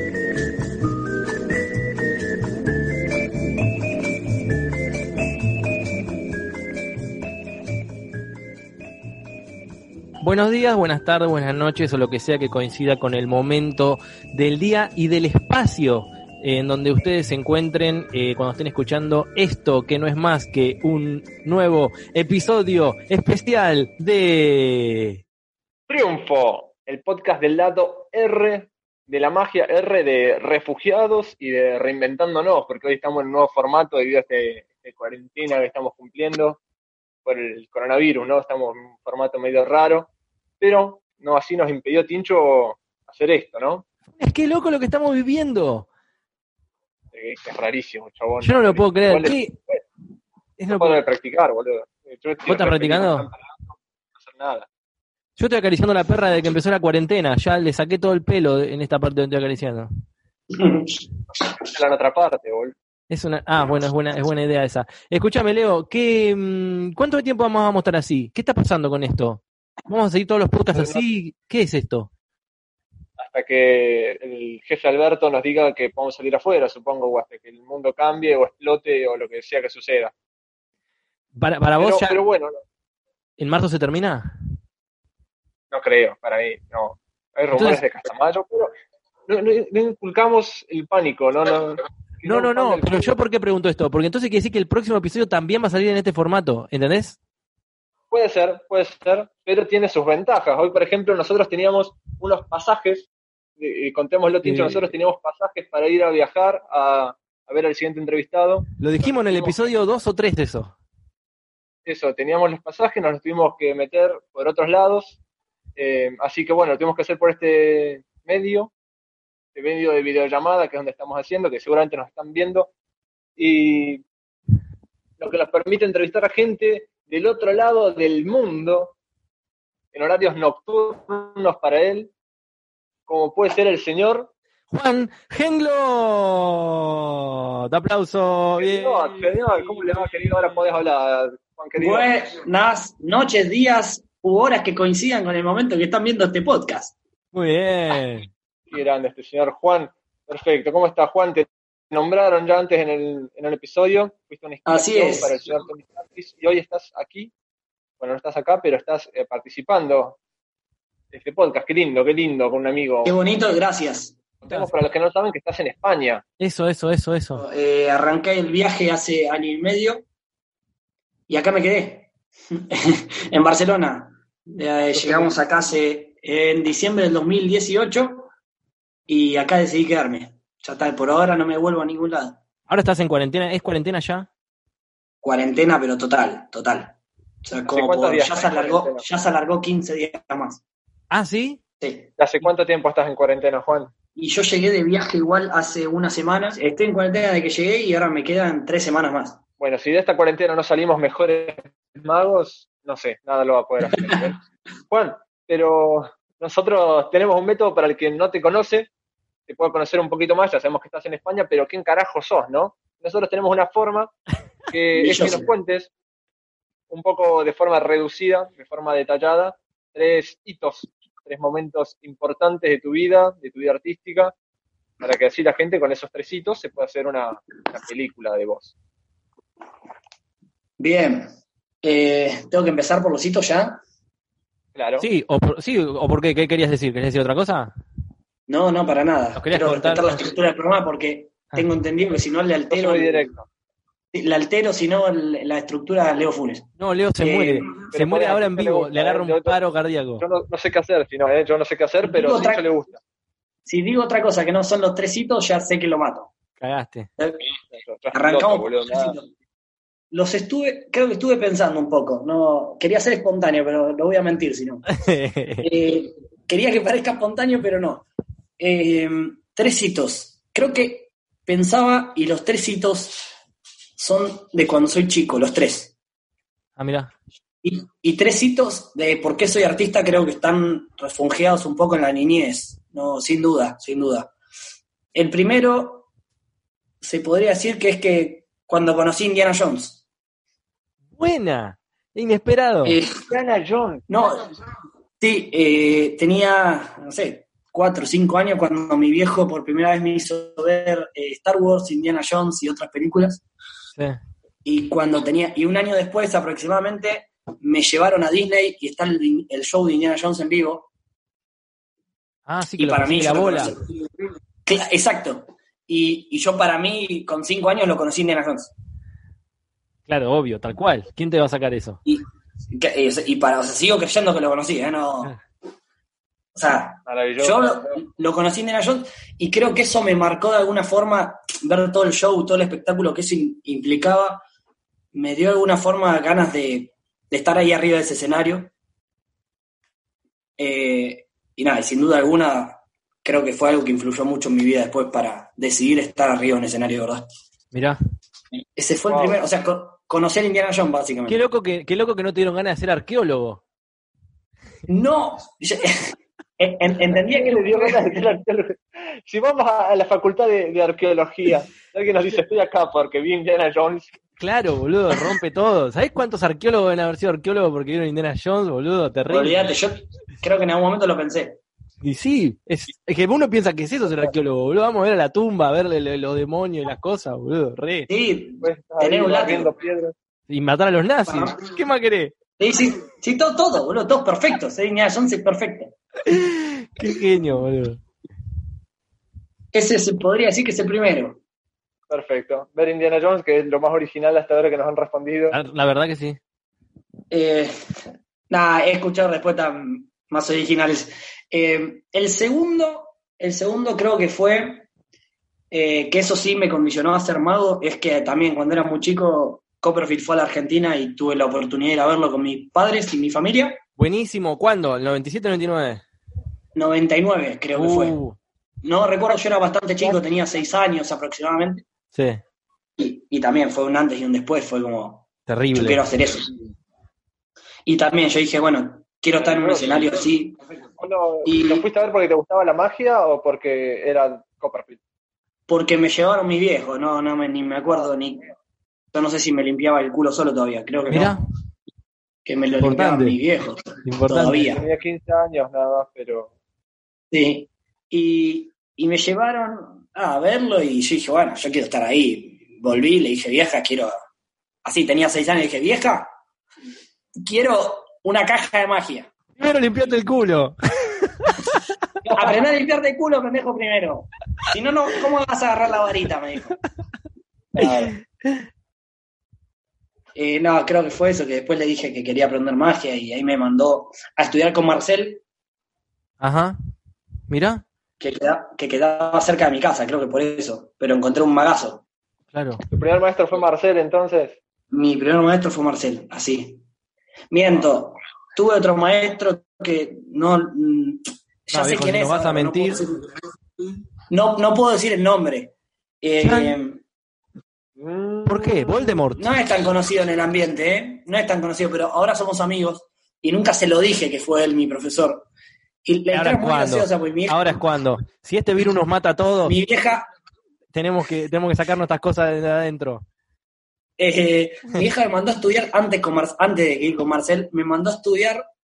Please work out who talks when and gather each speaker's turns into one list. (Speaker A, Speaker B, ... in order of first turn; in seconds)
Speaker A: 10.2-25.2, 44.2-45.9, 48.4-49.5, 50.6-51.0, 52.5-53.3, 55.4-59.9, 63.1-72.1, 81.3-82.2, 83.4-84.3, 87.5-87.8, 92.2-97.2, 104.4-104.9, 108.8-110.7, 134.7-139.3, 147.3-148.3, 166.4-167.4, 182.7-184.3, 191.1-191.6, 235.0-237.7, 239.3-240.2, 246.8-250.2, 256.6-257.1, 264.9-265.7, 276.8-277.1, 291.1-293.0, 312.5-313.7, 320.1-322.0, 347.7-348.0, 351.3-353.6, 364.4-369.7, 372.0-378.1, 380.5-382.3, 386.2-388.0, 395.5-396.4, 414.0-416.0, 417.7-418.4, 422.1-422.4, 425.5-426.0, 441.1-441.4, 442.8-443.4, 444.0-444.8, 459.6-461.8, 467.8-468.6, 476.4-476.8, 477.5-477.8, 482.5-482.8, 491.7-493.0, 496.4-496.8, 498.5-499.5, 506.3-509.8, 510.9-513.2
Speaker B: 25.9-36.6, 37.2-43.8, 47.1-49.8, 50.7-54.7, 61.6-62.7, 70.7-71.0, 73.2-80.1, 81.8-82.6, 85.7-88.7, 89.3-93.1, 98.1-103.1, 103.6-109.7, 111.8-115.2, 115.8-118.7, 119.5-122.7, 123.4-124.0, 125.2-128.9, 129.9-132.1, 133.1-134.3, 138.6-142.1, 148.7-157.3, 158.0-160.2, 161.1-163.1, 164.4-166.2, 174.9-175.3, 187.6-189.0, 192.2-193.9, 199.6-204.4, 204.9-208.9, 209.5-214.1, 214.7-215.9, 216.9-224.3, 225.0-228.7, 234.7-235.1, 242.7-243.5, 247.9-249.6, 250.2-253.0, 257.7-259.2, 293.3-294.0, 327.1-328.0, 349.1-349.4, 357.2-364.1, 378.6-380.1, 392.1-395.6, 429.4-430.2, 431.0-435.0, 444.7-446.5, 482.9-484.6, 498.0-499.1
Speaker C: 60.5-61.0, 141.8-146.9, 154.7-155.3, 163.0-164.2, 167.3-170.0, 171.3-178.3, 179.1-182.4, 185.2-190.6, 191.8-192.1, 194.2-199.4, 214.9-215.5, 230.8-231.3, 231.8-233.8, 238.5-243.2, 244.1-246.7, 247.2-247.8, 252.0-252.6, 253.7-256.3, 257.2-257.5, 258.1-259.3, 260.1-264.8, 265.6-268.1, 268.6-273.3, 274.0-275.9, 277.6-284.3, 285.1-286.1, 287.0-290.0, 292.8-293.2, 294.1-294.5, 295.2-303.4, 304.6-310.9, 312.8-313.8, 314.6-318.7, 322.1-325.3, 326.5-334.4, 335.1-338.7, 340.6-347.2, 348.8-351.4, 354.9-356.0, 356.6-358.4, 369.3-371.6, 378.1-379.7, 381.3-381.6, 382.6-385.9, 389.7-391.4, 397.3-404.9, 405.7-413.8, 416.7-418.1, 418.8-421.9, 423.0-426.5, 427.9-430.6, 431.4-431.8, 435.7-438.4, 439.1-441.4, 442.4-444.8, 447.3-454.1, 454.8-456.3, 457.4-459.3, 462.2-466.8, 467.7-468.1, 470.3-475.4, 478.2-482.0, 484.9-486.8, 487.5-493.2, 494.3-497.0, 499.4-505.4, 506.0-507.6, 509.6-510.3, 514.2-518.6